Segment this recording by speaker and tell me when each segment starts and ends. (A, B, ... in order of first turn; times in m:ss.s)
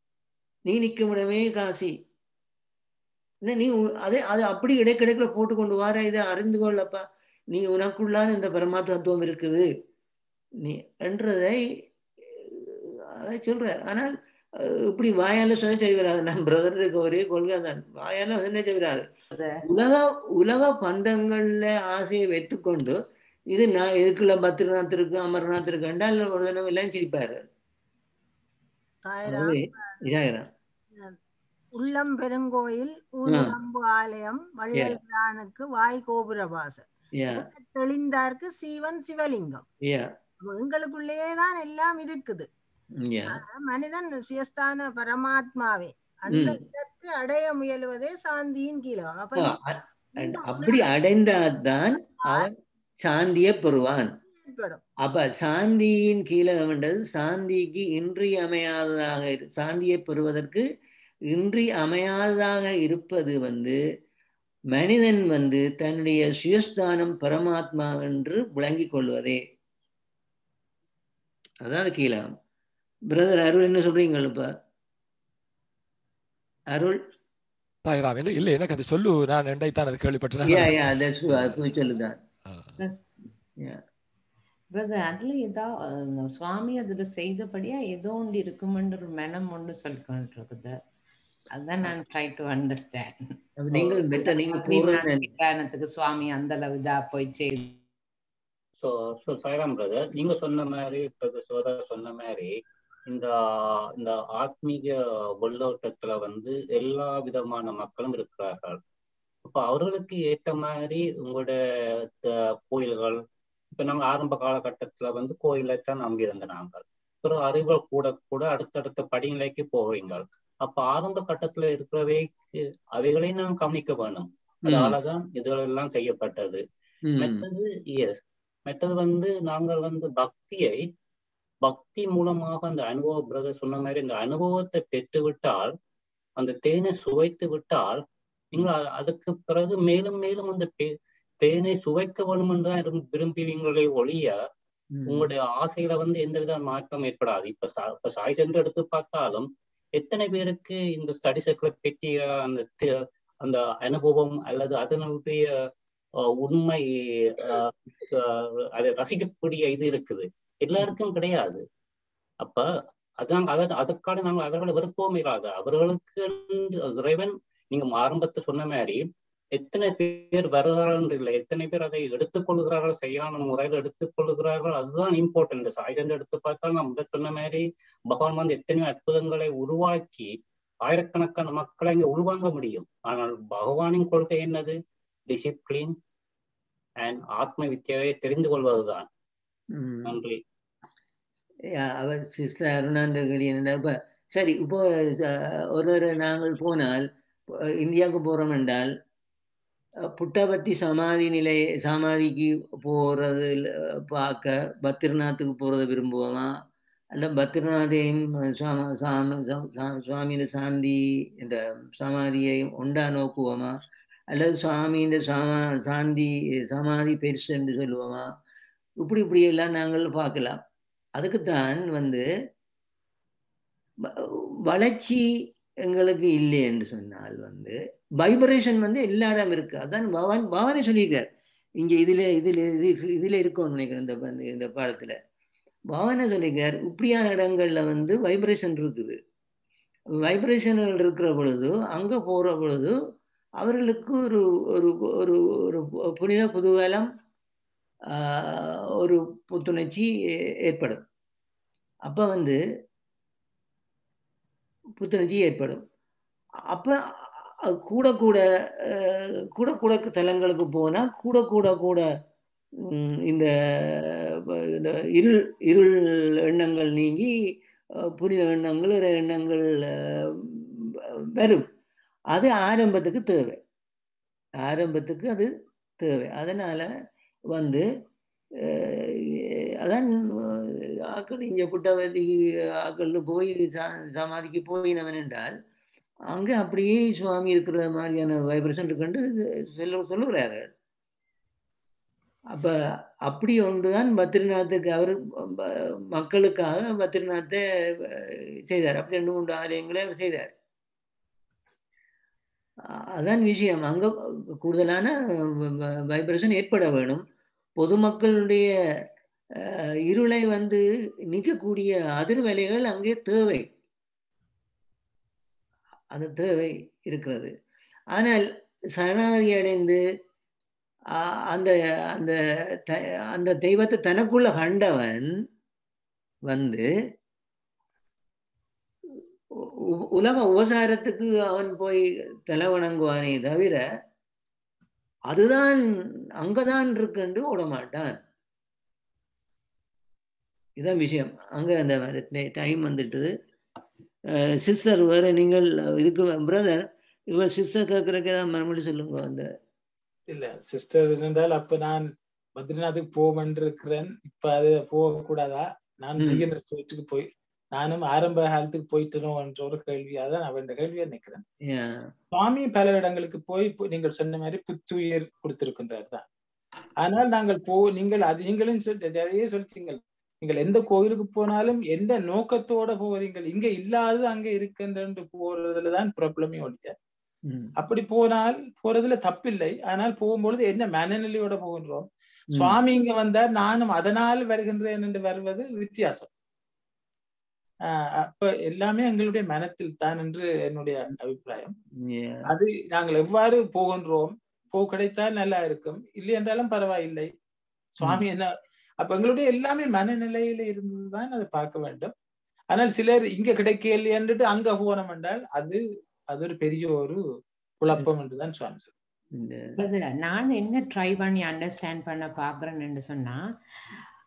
0:00.7-0:02.0 A
0:03.5-0:07.0 A
0:07.5-0:09.7 A
0:10.6-0:11.6 A
0:12.3-0:19.1 A
0:19.6-0:23.0 A
0:23.5-0:27.4 A
0:29.0-0:30.0 B
0:29.2-0:30.5 A
0:31.7-0:39.6 B
0:33.2-0:33.6 A
0:34.7-0:35.0 A
0:37.2-0:37.5 A
0:40.4-0:42.5 B
0:43.0-0:43.4 A
0:43.3-0:49.6 B
0:46.3-0:46.6 A
0:49.4-0:52.5 A
0:50.1-0:50.9 B
0:53.0-0:54.1 A
0:54.4-0:54.8 B
0:55.0-1:00.6 A
1:01.3-1:03.8 A
1:04.7-1:09.4 A
1:11.6-1:12.3 A
1:13.1-1:14.5 A
1:17.9-1:21.6 C
1:20.4-1:22.2 A
1:24.7-1:30.8 D
1:31.5-1:33.3 D
1:33.6-1:35.3 A
1:33.9-1:37.8 D
1:38.8-1:42.6 E
1:43.1-1:48.8 E
1:49.5-1:53.2 E
1:53.8-2:06.6 E
2:04.7-2:05.0 A
2:07.1-2:07.4 A
2:07.2-2:10.8 E
2:11.6-2:15.7 E
2:16.4-2:18.0 E
2:18.5-2:20.9 E
2:21.4-2:24.4 E
2:25.0-2:25.3 A
2:25.1-2:35.5 E
2:36.2-2:41.6 E
2:42.4-2:42.7 E
2:43.2-2:49.0 E
2:49.6-3:00.3 E
3:00.8-3:04.8 E
3:05.3-3:06.0 E
3:07.0-3:09.1 E
3:09.7-3:10.1 A
3:10.1-3:10.4 E
3:11.7-3:17.1 A
3:17.8-3:18.9 A
3:20.2-3:23.6 A
3:24.1-3:26.5 A
3:27.2-3:33.7 A
3:34.3-3:38.3 A
3:39.0-3:40.6 A
3:41.2-3:42.2 A
3:44.7-3:45.2 A
3:45.9-3:51.3 A
3:51.8-3:55.2 A
3:55.9-3:59.2 A
4:00.2-4:03.0 A
4:03.6-4:07.1 A
4:08.1-4:10.1 A
4:10.7-4:11.0 A
4:12.1-4:12.6 A
4:15.0-4:15.8 A
4:16.7-4:22.0 A
4:22.8-4:24.2 A
4:24.8-4:25.9 A
4:26.5-4:27.3 A
4:28.2-4:29.9 A
4:31.4-4:31.7 A
4:32.3-4:33.6 A
4:34.7-4:36.9 A
4:37.5-4:37.8 A
4:38.6-4:45.5 A
4:46.3-4:49.2 A
4:49.7-4:50.7 A
4:53.3-5:00.5 A
5:03.2-5:07.2 A
5:07.8-5:08.7 A
5:09.6-5:13.7 A
5:16.1-5:17.5 A
5:18.1-5:18.4 A
5:19.0-5:20.0 A
5:21.2-5:25.3 A
5:26.5-5:26.9 A
5:29.6-5:33.8 A
5:35.3-5:35.8 A
5:36.4-5:38.2 A
5:40.8-5:43.3 A
5:44.4-5:46.8 A
5:47.3-5:49.5 A
5:50.3-6:01.4 F
5:56.2-5:56.4 A
6:01.7-6:02.1 A
6:02.3-6:06.2 F
6:07.0-6:16.9 F
6:17.8-6:26.3 F
6:27.9-6:31.7 F
6:32.0-6:32.4 A
6:32.5-6:37.3 F
6:38.0-6:38.5 F
6:39.0-6:42.1 F
6:42.7-6:45.8 F
6:46.3-6:47.2 F
6:47.8-6:48.9 F
6:49.4-6:49.7 A
6:49.8-6:53.4 D